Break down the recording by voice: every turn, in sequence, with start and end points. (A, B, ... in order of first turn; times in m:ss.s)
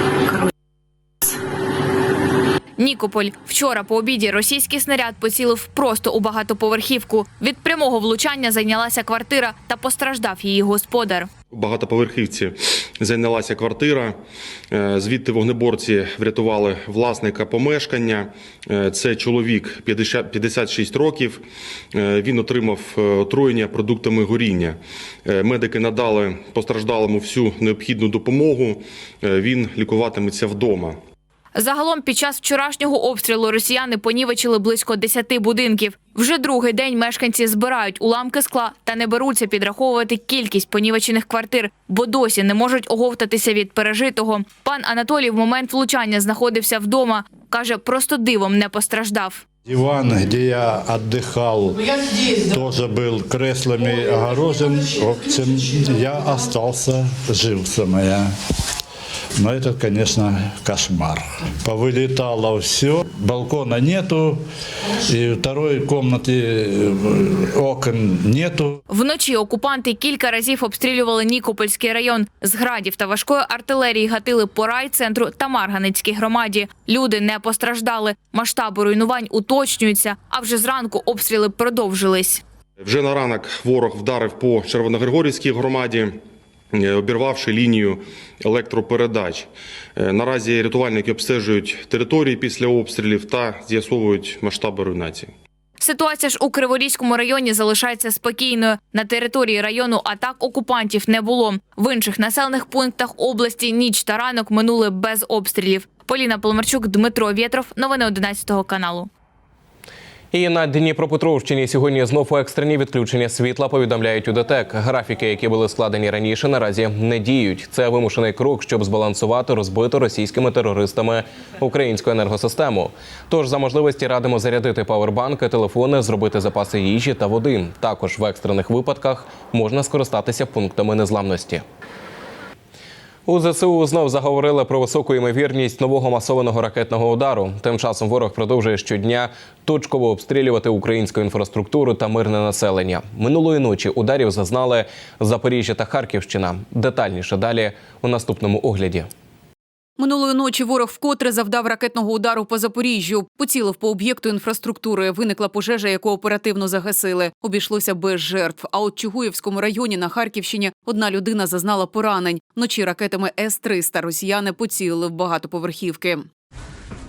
0:02.8-0:11.3 A
0:11.5-0:14.2 B
0:14.7-0:21.4 B
0:21.9-0:31.0 B
0:31.5-0:49.4 A
0:49.7-0:58.3 C
0:59.4-1:04.4 C
1:05.1-1:08.7 C
1:08.9-1:22.4 A
1:22.8-1:26.2 B
1:26.7-1:35.3 B
1:35.8-1:49.1 A
1:50.3-2:11.6 D
2:13.3-2:29.1 D
2:30.0-2:46.2 E